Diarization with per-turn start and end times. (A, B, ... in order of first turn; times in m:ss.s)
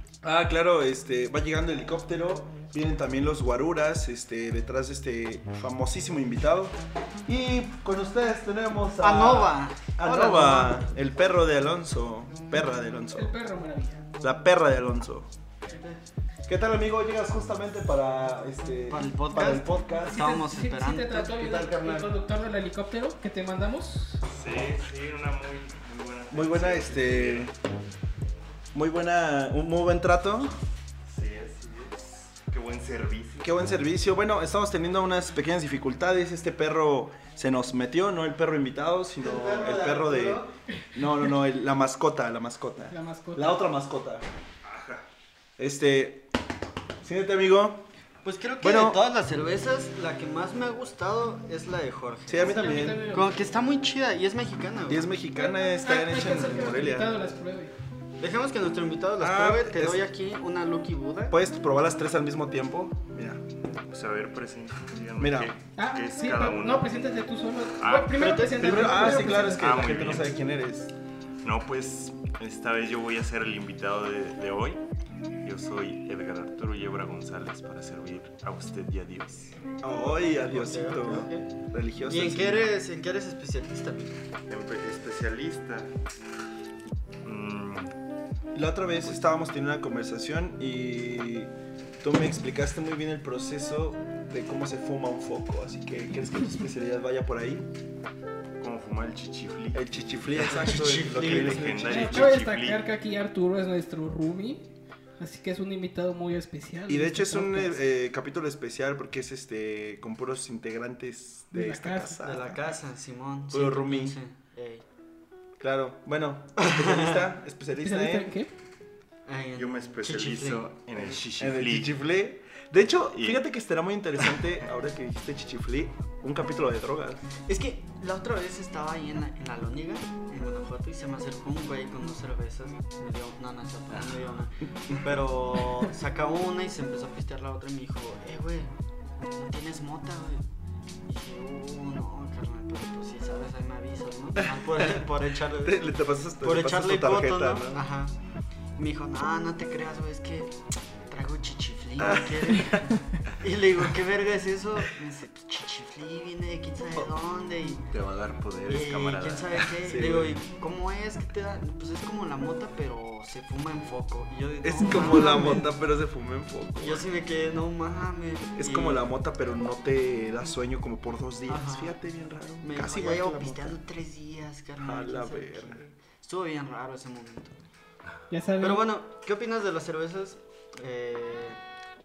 0:00.2-0:13.3 A
0:09.0-0:10.8 B
0:13.1-0:14.0 C
0:14.2-0:15.3 A
0:15.6-0:16.0 B
0:16.5-0:20.3 A
0:18.9-0:21.5 B
0:20.0-0:24.2 C
0:21.3-0:22.1 A
0:24.2-0:27.5 D
0:26.3-0:27.5 A
0:28.7-0:30.5 A
0:31.0-0:33.6 D
0:33.4-0:44.2 A
0:39.2-0:40.5 B
0:42.9-0:43.5 C
0:44.6-0:45.0 D
0:45.6-0:46.3 A
0:47.0-0:47.9 A
0:48.2-0:55.1 B
0:48.6-0:49.0 A
0:52.3-0:53.0 A
0:52.4-0:53.5 C
0:54.8-0:57.1 A
0:55.4-0:57.7 C
0:58.2-1:01.4 B
0:59.2-1:00.0 A
1:01.3-1:03.4 A
1:03.9-1:06.9 D
1:05.2-1:05.5 A
1:05.8-1:09.7 C
1:07.8-1:08.5 D
1:08.1-1:09.2 B
1:08.6-1:10.9 A
1:09.2-1:10.4 D
1:11.4-1:14.8 D
1:15.4-1:19.6 D
1:19.8-1:22.7 A
1:20.3-1:21.5 B
1:22.0-1:24.2 B
1:24.5-1:25.9 D
1:27.2-1:27.9 D
1:28.5-1:37.7 A
1:38.6-1:42.8 D
1:39.7-1:42.3 A
1:40.4-1:41.9 B
1:41.9-1:44.7 C
1:45.2-1:47.8 C
1:46.9-1:52.7 A
1:51.5-1:52.2 C
1:52.2-1:54.8 B
1:53.5-1:54.2 A
1:55.6-1:58.3 A
1:56.6-1:57.2 B
1:57.8-1:58.5 C
1:59.2-2:01.2 B
1:59.5-2:02.0 D
2:01.4-2:07.3 A
2:02.9-2:03.4 D
2:07.5-2:20.5 B
2:21.0-2:28.2 B
2:24.4-2:25.0 A
2:25.6-2:27.8 A
2:28.8-2:37.9 B
2:32.0-2:32.3 A
2:37.9-2:39.8 D
2:38.7-2:45.7 B
2:39.8-2:40.4 A
2:44.6-2:47.0 A
2:44.8-2:45.7 C
2:46.8-2:49.0 B
2:48.6-2:53.8 A
2:51.5-2:51.9 B
2:52.6-2:57.5 B
2:54.8-2:55.8 A
2:58.3-2:58.9 C
2:58.6-3:01.6 B